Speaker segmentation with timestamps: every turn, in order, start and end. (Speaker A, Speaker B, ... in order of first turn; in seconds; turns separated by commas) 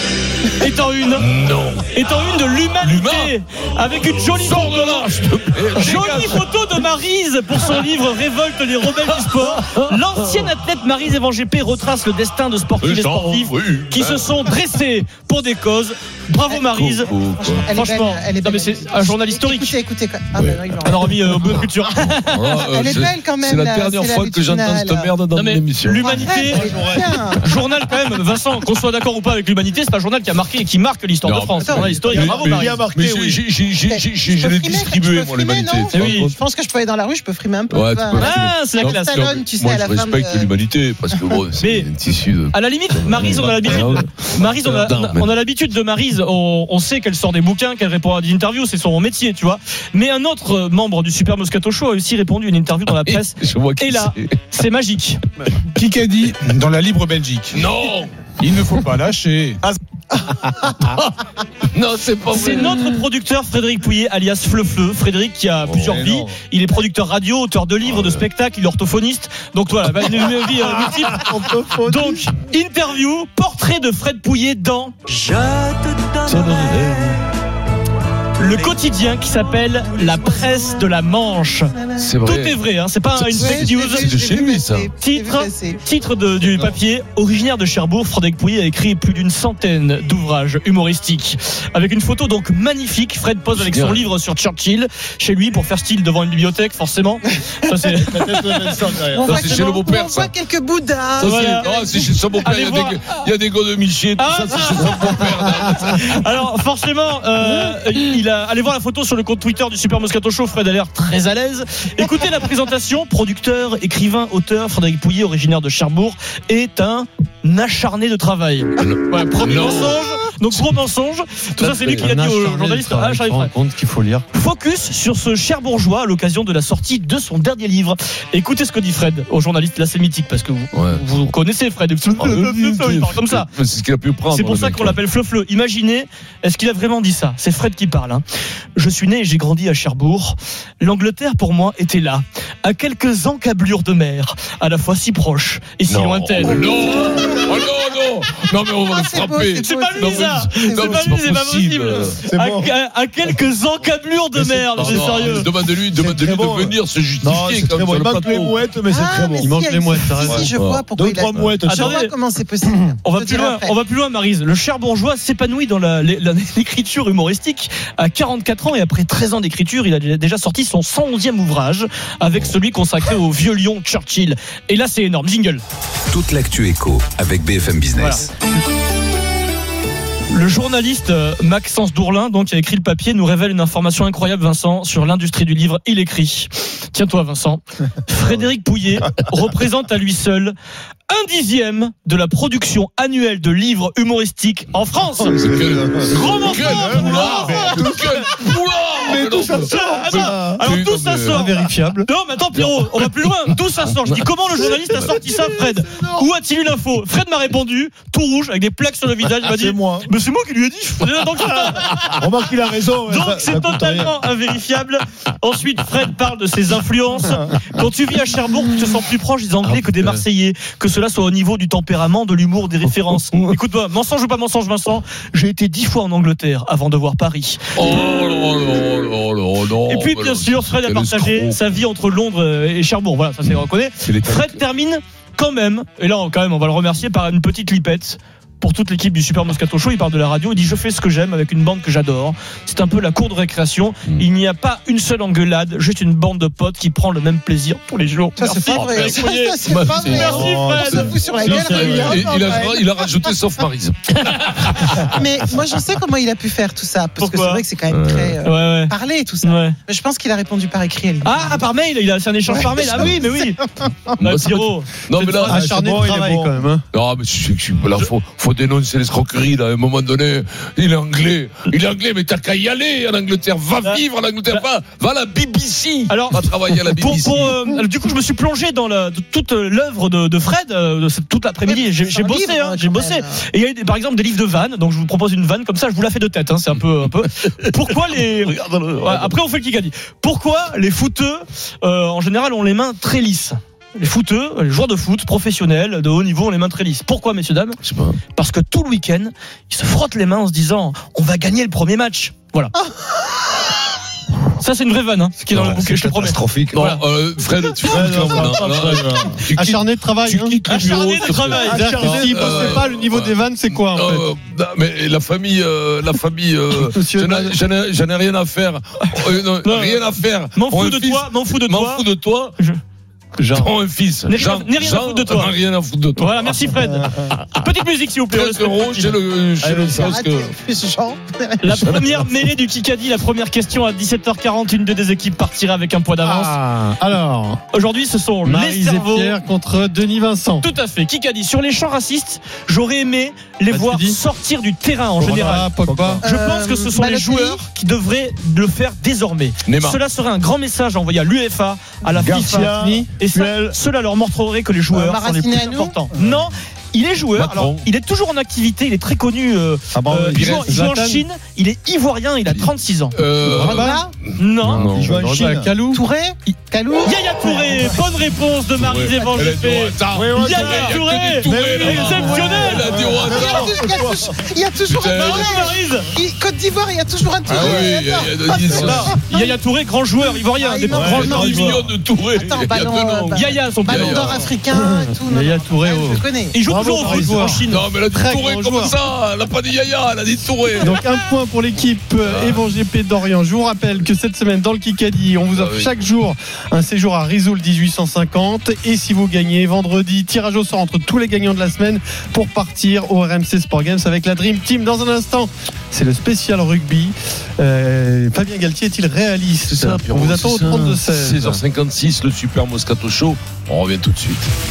Speaker A: 0.5-1.3, Speaker B: 1.1-3.4, Speaker A: 1.9-5.2, Speaker B: 4.0-6.5, Speaker A: 5.7-17.1, Speaker B: 9.0-10.5, Speaker B: 12.8-14.6, Speaker B: 16.5-17.7, Speaker C: 17.4-21.5, Speaker A: 17.7-19.8, Speaker B: 20.4-20.8, Speaker A: 20.8-22.5, Speaker B: 21.4-26.6, Speaker C: 22.7-25.1, Speaker A: 25.3-26.6, Speaker C: 26.0-27.5, Speaker D: 26.5-27.1, Speaker A: 27.4-32.8, Speaker B: 31.2-36.3, Speaker C: 31.6-32.0, Speaker D: 32.1-33.4, Speaker C: 33.9-40.5, Speaker A: 35.9-36.3, Speaker B: 37.7-45.3, Speaker A: 38.1-39.2, Speaker A: 41.6-41.9, Speaker A: 42.5-55.2, Speaker D: 43.2-44.0, Speaker B: 52.9-54.4, Speaker E: 55.8-57.6, Speaker B: 57.5-58.1, Speaker E: 58.4-59.6, Speaker B: 61.7-62.9, Speaker A: 62.3-71.2, Speaker B: 65.6-66.0, Speaker D: 65.9-66.3, Speaker B: 67.8-68.2, Speaker D: 70.5-72.2, Speaker A: 71.8-76.1, Speaker B: 76.2-77.2, Speaker A: 78.4-84.1, Speaker B: 82.0-82.6, Speaker B: 83.1-84.9, Speaker C: 83.3-85.8, Speaker A: 85.0-98.7, Speaker B: 93.5-94.1, Speaker D: 97.9-99.5, Speaker C: 99.1-102.1, Speaker B: 99.2-100.3, Speaker B: 101.2-106.2, Speaker A: 101.2-103.0, Speaker A: 104.2-105.3, Speaker A: 105.9-123.5, Speaker B: 118.8-120.0, Speaker B: 121.6-122.1, Speaker F: 122.0-124.2, Speaker A: 124.3-133.5, Speaker B: 130.7-131.0, Speaker B: 132.1-135.0, Speaker A: 134.3-138.2, Speaker A: 138.8-146.7, Speaker B: 145.9-152.2, Speaker C: 148.9-151.2, Speaker A: 149.6-155.5, Speaker D: 152.3-152.7, Speaker D: 154.3-155.4, Speaker B: 154.7-158.6, Speaker D: 155.9-159.5, Speaker C: 158.9-163.7, Speaker F: 159.4-160.5, Speaker D: 160.2-162.0, Speaker B: 160.5-161.6, Speaker A: 161.7-162.1, Speaker A: 163.0-175.6, Speaker G: 176.1-178.2, Speaker A: 177.9-178.6, Speaker A: 180.3-190.5, Speaker A: 191.1-195.4, Speaker D: 195.2-198.3, Speaker B: 195.3-201.4, Speaker A: 196.1-198.0, Speaker D: 199.0-200.6, Speaker A: 199.5-212.2, Speaker F: 201.3-202.1, Speaker B: 202.5-205.5, Speaker D: 209.4-210.1, Speaker D: 212.0-214.2, Speaker A: 213.1-227.7, Speaker B: 219.6-220.2, Speaker B: 222.9-223.6, Speaker B: 227.8-231.8, Speaker A: 229.9-251.1, Speaker B: 233.4-234.6, Speaker C: 248.4-253.3, Speaker B: 249.7-255.2, Speaker D: 250.1-252.3, Speaker C: 255.0-261.6, Speaker A: 257.2-257.6, Speaker B: 257.9-258.4, Speaker A: 258.4-259.8, Speaker A: 261.2-263.6, Speaker C: 262.7-263.4, Speaker B: 262.9-263.1, Speaker A: 264.2-265.5, Speaker B: 264.2-265.6, Speaker F: 265.5-266.8, Speaker D: 265.5-266.6, Speaker B: 266.9-277.6, Speaker A: 273.8-274.6, Speaker A: 276.1-297.8, Speaker C: 281.6-283.4, Speaker B: 288.1-289.3, Speaker B: 297.8-298.2, Speaker A: 298.3-302.7, Speaker A: 304.6-307.0, Speaker B: 305.5-306.1, Speaker D: 305.5-306.8, Speaker B: 306.7-313.3, Speaker D: 307.8-309.4, Speaker F: 309.5-314.2, Speaker A: 310.6-312.1, Speaker D: 311.5-312.8, Speaker B: 313.9-322.5, Speaker F: 316.8-317.6, Speaker A: 319.6-322.1, Speaker B: 323.4-327.6, Speaker A: 324.3-325.5, Speaker A: 326.1-329.1, Speaker B: 328.3-330.5, Speaker D: 329.6-330.2, Speaker C: 330.0-331.9, Speaker A: 331.6-336.6, Speaker B: 331.9-332.2, Speaker F: 336.2-337.6, Speaker A: 337.7-339.3, Speaker F: 338.4-340.7, Speaker A: 340.6-345.7, Speaker F: 343.7-344.2, Speaker F: 345.2-346.2, Speaker D: 345.8-346.2, Speaker C: 346.2-347.6, Speaker A: 346.2-363.1, Speaker B: 349.6-350.0, Speaker D: 352.2-353.8, Speaker F: 352.2-353.1, Speaker C: 354.9-356.1, Speaker D: 356.1-356.5, Speaker B: 357.3-357.9, Speaker D: 359.9-360.5, Speaker B: 360.3-360.7, Speaker F: 360.7-361.2, Speaker B: 362.5-365.1, Speaker F: 363.5-364.0, Speaker C: 363.6-364.1, Speaker A: 364.4-364.8, Speaker D: 364.7-365.7, Speaker F: 364.8-366.0, Speaker C: 365.9-367.9, Speaker A: 367.0-372.9, Speaker B: 368.8-373.7, Speaker D: 370.1-374.4, Speaker C: 372.0-379.6, Speaker B: 374.9-375.7, Speaker A: 375.1-376.1, Speaker B: 377.5-379.1, Speaker A: 378.7-381.8, Speaker C: 380.2-381.7, Speaker D: 380.9-381.9, Speaker B: 381.0-384.5, Speaker C: 382.2-386.6, Speaker A: 383.3-384.4, Speaker F: 385.3-386.2, Speaker A: 386.5-387.9, Speaker D: 386.6-387.6, Speaker F: 386.8-388.9, Speaker B: 387.7-391.0, Speaker F: 390.8-411.6, Speaker B: 392.2-392.6, Speaker B: 395.5-395.9, Speaker B: 409.7-414.5